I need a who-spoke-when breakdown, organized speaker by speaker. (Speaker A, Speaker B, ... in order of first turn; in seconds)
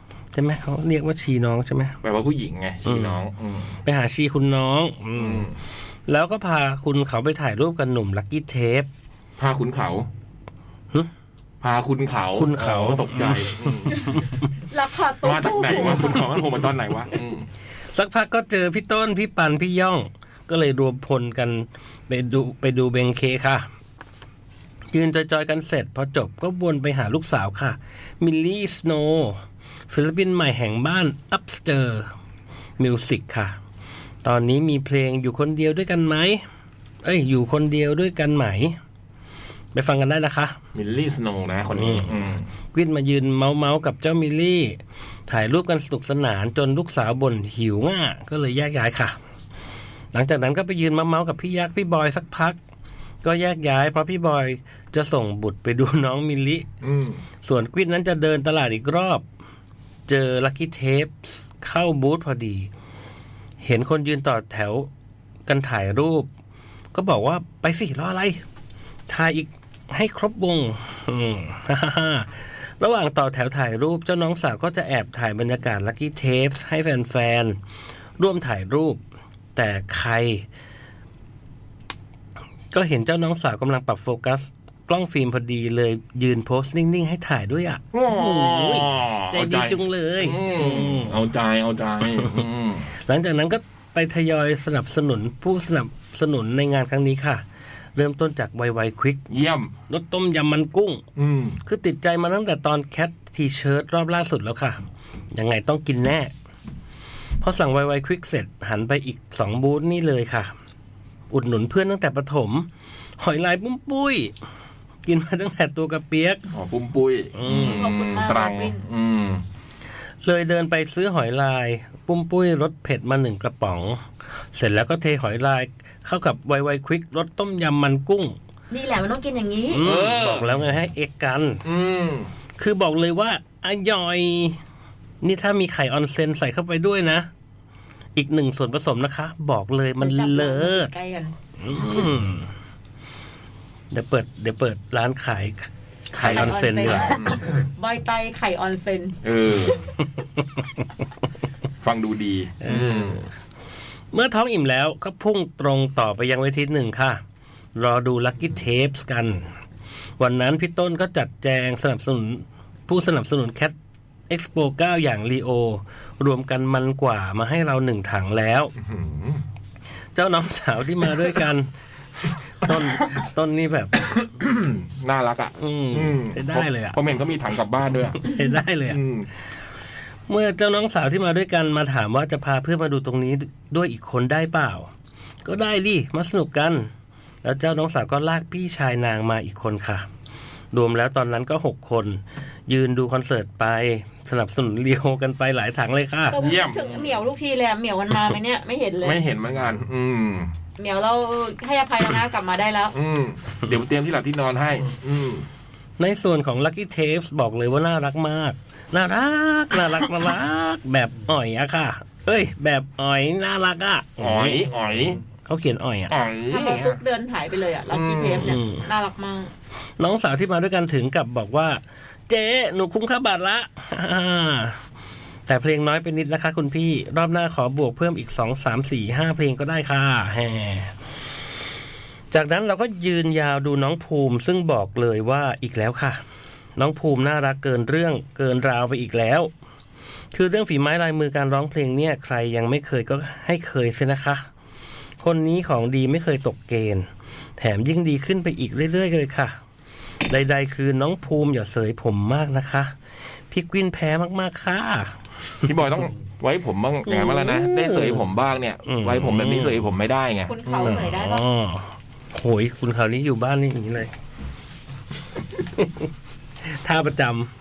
Speaker A: 0.3-1.9, 2.8-3.2, 3.8-5.5, 6.1-8.9, 12.3-14.3, 17.9-23.6, 24.9-32.1, 32.8-33.5, 34.2-36.4, 37.0-38.8, 39.7-40.6, 41.7-42.2, 42.7-49.1, 50.1-52.6, 53.2-56.7, 57.4-59.2, 60.1-62.7, 63.6-64.9, 65.5-66.3, 66.9-68.4, 69.1-77.6, 78.2-79.0, 79.5-80.5, 82.7-91.2, 92.2-92.4, 93.1-99.2, 99.9-101.0, 101.6-104.8, 105.3-106.3, 107.4-110.5, 111.3-112.7, 113.2-114.3, 115.0-116.4, 117.3-117.9, 120.2-128.4, 129.7-131.6, 132.6-134.6, 135.2-137.3, 138.2-140.9, 141.6-142.5, 143.9-147.2, 152.6-153.3, 154.1-157.2, 157.7-159.5, 160.2-163.7, 164.3-168.7, 170.1-171.7, 172.3-174.1, 175.6-177.0, 178.2-179.0, 180.3-184.9, 185.4-186.9, 187.4-190.1, 190.7-196.4, 206.0-214.7, 215.4-216.1, 218.4-218.8, 220.0-224.8, 225.5-230.9, 232.3-236.2, 236.8-239.5, 240.3-244.4, 245.2-249.5, 250.3-252.9, 253.5-255.2, 257.1-258.2, 258.9-259.8, 260.8-264.1, 265.7-266.1, 266.6-267.5
Speaker B: 2.0-3.8, 5.2-5.6, 9.4-10.1, 11.6-14.2, 15.2-17.5, 40.7-42.4, 56.8-57.2, 87.9-92.9, 99.3-99.7, 101.2-101.6, 116.5-119.4, 129.8-130.6, 131.6-132.3, 146.1-147.5, 149.2-149.9, 151.8-153.2, 168.8-169.4, 174.2-178.3, 178.9-179.3, 196.4-197.1, 199.0-200.5, 202.9-205.5, 214.2-215.2, 216.1-217.0, 217.9-218.5, 255.6-261.1
Speaker C: 14.7-16.2, 117.5-118.8, 128.7-129.8, 140.0-141.3, 146.2-149.2, 196.3-199.2, 200.8-202.9, 216.5-219.5, 260.5-261.4